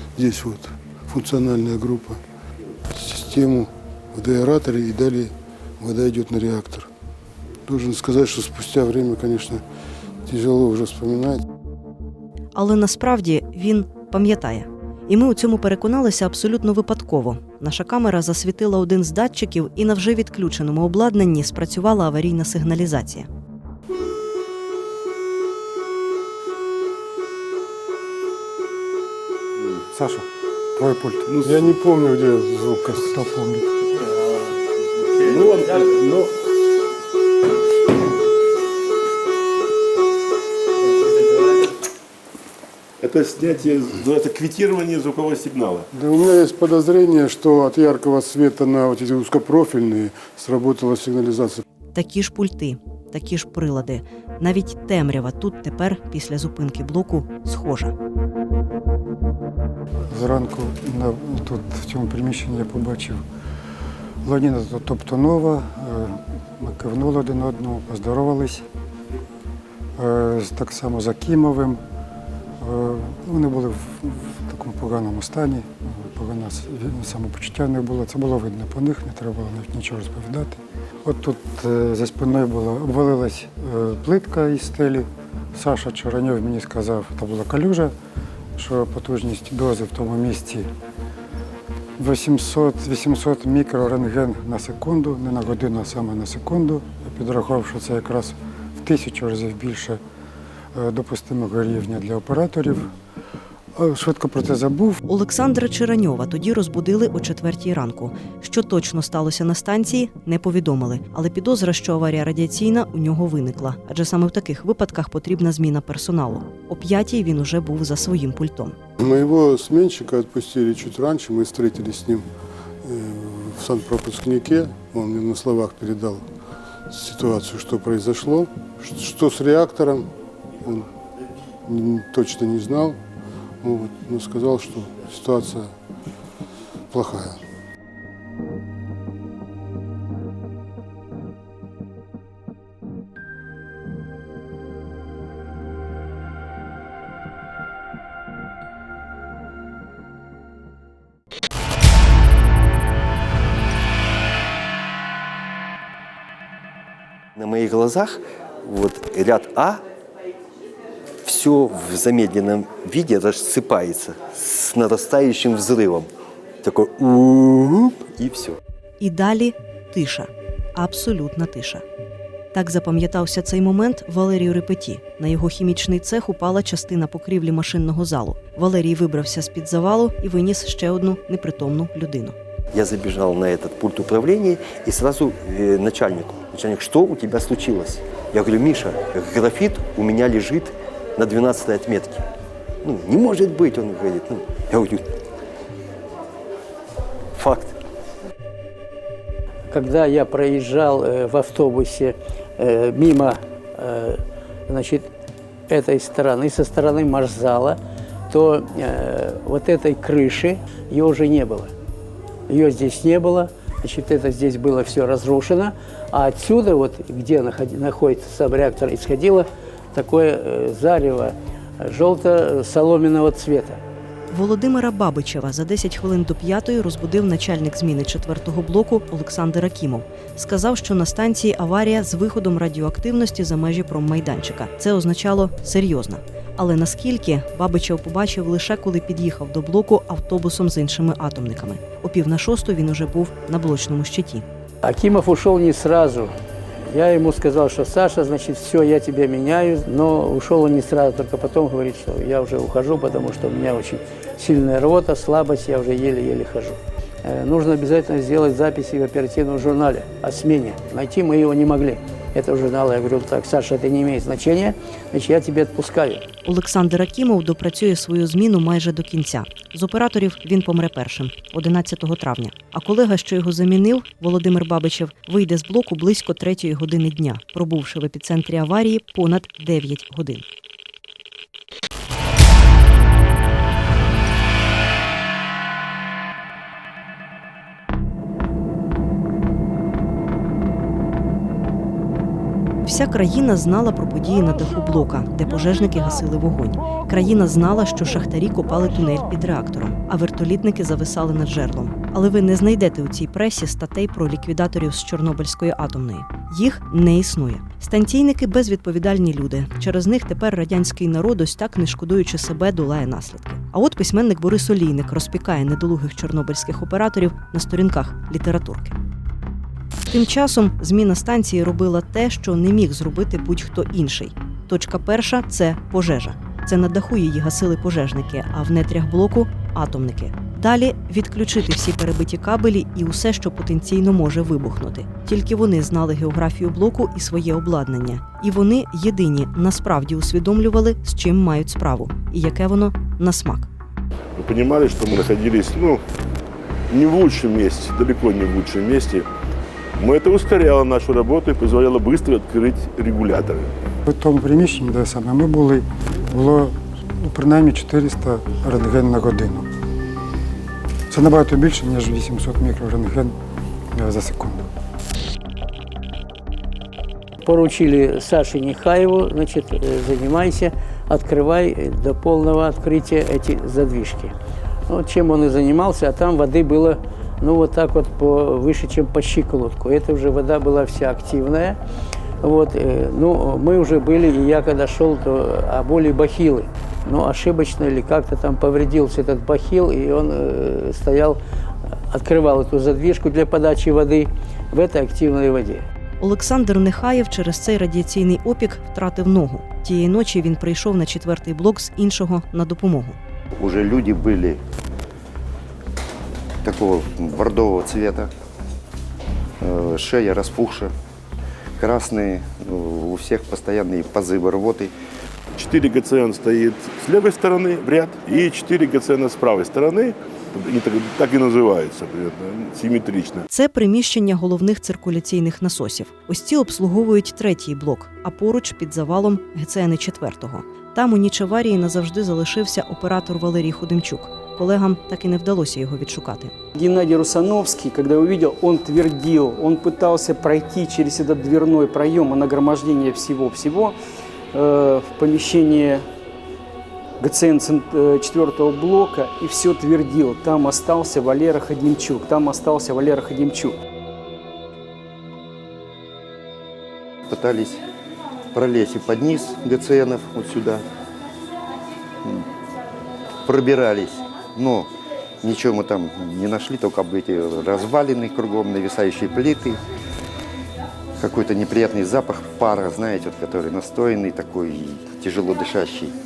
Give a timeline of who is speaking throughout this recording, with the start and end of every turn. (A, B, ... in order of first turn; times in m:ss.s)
0:00.2-0:02.2 A
0:02.9-0:06.9 A
0:07.6-0:09.6 A
0:10.2-0:11.4 A
0:12.5-0:23.3 B
0:29.9-0:31.5 C
0:31.4-0:33.1 A
0:33.1-0:33.7 C
0:35.2-0:36.3 D
0:43.0-0:45.9 D
0:45.9-0:51.6 A
0:51.9-0:57.9 B
1:00.1-1:03.2 C
1:04.2-1:08.6 C
1:10.0-1:11.8 C
1:12.6-1:27.9 C
1:28.6-1:30.7 C
1:32.0-1:40.0 C
1:40.7-1:42.9 C
1:43.8-1:45.0 C
1:45.1-1:58.8 B
1:59.0-2:02.2 A
2:02.8-2:06.2 A
2:06.9-2:10.1 A
2:10.6-2:10.9 A
2:11.6-2:13.0 A
2:13.6-2:15.7 A
2:16.9-2:17.4 A
2:37.4-2:39.8 E
2:41.2-2:46.1 E
2:46.6-2:48.5 E
2:49.0-2:51.8 B
2:52.5-3:02.3 B
3:02.7-3:12.2 E
3:12.8-3:15.0 E
3:17.3-3:17.7 E
3:19.7-3:25.1 F
3:25.7-3:27.8 F
3:28.3-3:31.7 F
3:32.5-3:43.8 F
3:44.3-4:04.4 B
4:04.8-4:06.3 F
4:06.9-4:26.2 F
4:26.4-4:40.4 B
4:52.8-5:19.0 B
5:20.1-5:43.7 B
5:44.4-5:46.0 D
5:46.9-5:49.3 D
5:50.0-5:53.7 D
5:54.1-5:59.7 C
6:01.1-6:03.3 C
6:03.9-6:04.7 C
6:07.4-6:14.3 F
6:14.9-6:21.8 F
6:22.4-6:31.4 F
6:32.1-6:35.8 F
6:36.2-6:43.2 B
6:43.6-6:44.6 G
6:46.6-6:48.3 G
6:49.6-6:50.9 G
6:51.8-6:54.9 G
6:55.6-7:03.4 D
7:03.5-7:16.5 B
7:16.7-7:24.0 H
7:24.5-7:26.0 H
7:27.2-7:33.7 H
7:37.3-7:37.8 G
7:38.5-7:40.9 G
7:43.4-7:44.9 G
7:45.4-7:49.8 G
7:51.2-7:56.1 G